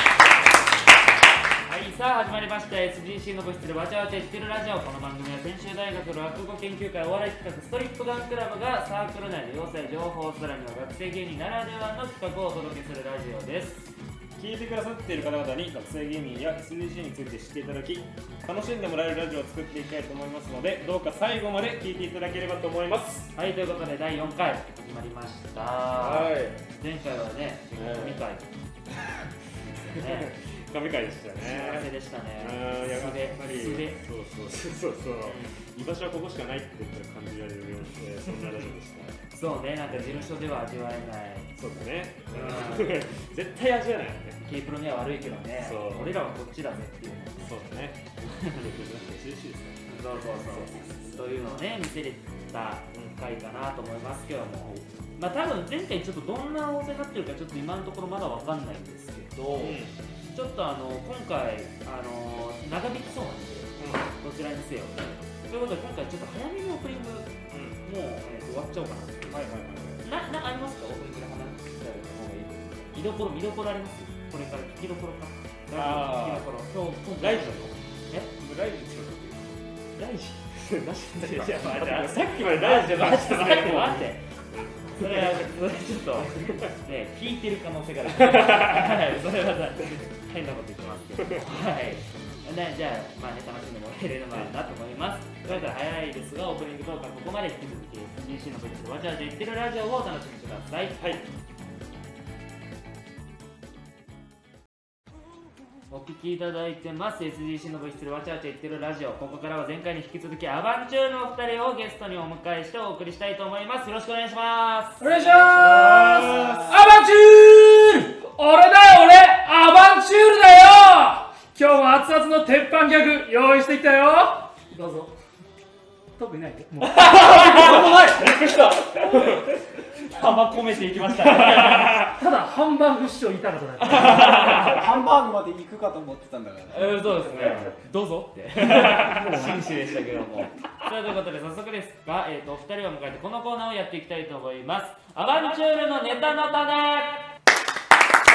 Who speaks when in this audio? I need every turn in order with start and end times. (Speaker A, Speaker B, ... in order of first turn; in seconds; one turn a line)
Speaker A: 1.7-13.9
Speaker B: 14.4-23.3
Speaker A: 23.3-28.4
Speaker B: 25.9-26.6
Speaker B: 27.7-28.2
Speaker A: 29.6-30.3
Speaker B: 29.9-39.2
Speaker A: 31.4-34.0
Speaker A: 35.2-35.6
Speaker A: 39.3-41.5
Speaker B: 41.5-44.4
Speaker A: 42.3-43.0
Speaker A: 44.4-47.5
Speaker B: 45.6-46.2
Speaker B: 47.4-51.0
Speaker A: 48.3-48.6
Speaker A: 49.9-59.8
Speaker B: 52.9-53.2
Speaker B: 59.5-60.0
Speaker A: 60.3-78.3
Speaker B: 63.8-64.1
Speaker B: 67.5-67.8
Speaker B: 69.3-70.0
Speaker B: 75.7-76.5
Speaker B: 77.2-77.8
Speaker B: 78.3-79.6
Speaker A: 80.0-80.5
Speaker B: 80.5-84.1
Speaker A: 81.1-84.2
Speaker B: 84.9-85.5
Speaker A: 85.0-101.0
Speaker B: 86.2-86.7
Speaker B: 88.5-88.9
Speaker A: 105.9-115.1
Speaker C: 115.0-125.1
Speaker D: 115.2-116.7
Speaker B: 116.0-116.5
Speaker C: 126.2-127.0
Speaker A: 126.9-127.8
Speaker D: 127.2-128.7
Speaker B: 127.2-129.4
Speaker A: 129.1-129.4
Speaker A: 130.0-132.1
Speaker B: 131.3-132.1
Speaker C: 132.1-134.5
Speaker A: 133.8-134.8
Speaker D: 133.9-137.2
Speaker A: 136.7-147.2
Speaker B: 137.3-137.7
Speaker C: 138.7-139.7